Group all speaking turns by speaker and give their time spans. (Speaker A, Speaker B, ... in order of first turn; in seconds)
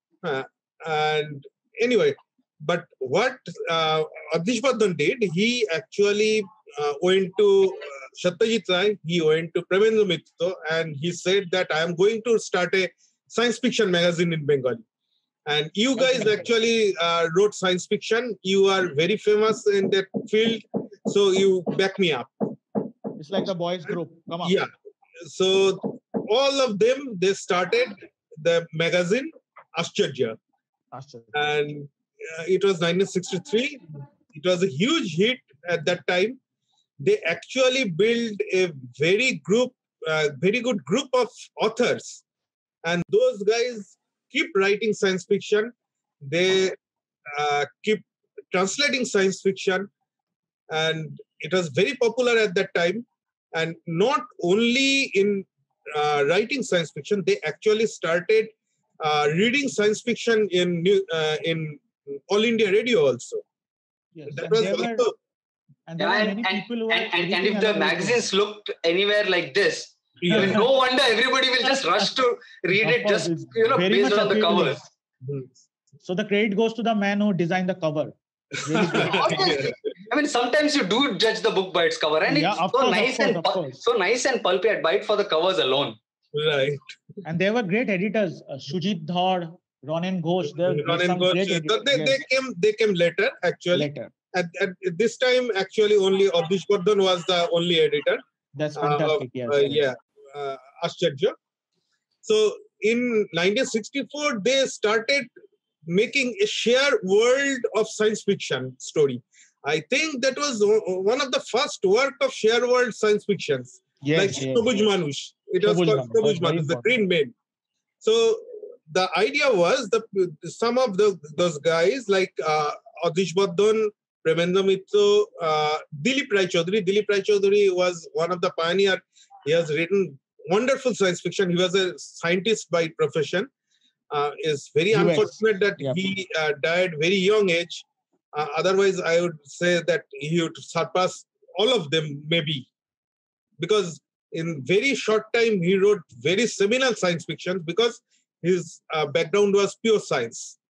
Speaker A: 0.2-14.8, 15.5-22.3, 24.4-24.7, 25.2-30.4, 31.3-36.4, 37.0-42.2, 42.8-45.7, 46.2-46.8, 47.3-49.9, 50.7-63.4, 64.3-65.1, 70.2-70.6, 75.2-75.6, 78.6-79.8, 86.3-86.8, 90.6-98.2, 98.8-101.3, 102.2-105.3, 105.9-117.3, 118.0-133.5, 134.1-142.7, 143.6-150.6
Speaker B: 16.0-16.5, 23.2-24.6, 30.9-31.5, 64.2-65.1, 65.9-68.3, 70.3-70.7, 72.7-74.9, 76.0-79.5, 82.3-83.8, 87.2-92.2, 93.7-94.1, 98.6-99.8, 114.0-114.6, 115.6-116.9, 134.9-136.0
Speaker C: 66.0-74.8, 78.9-86.0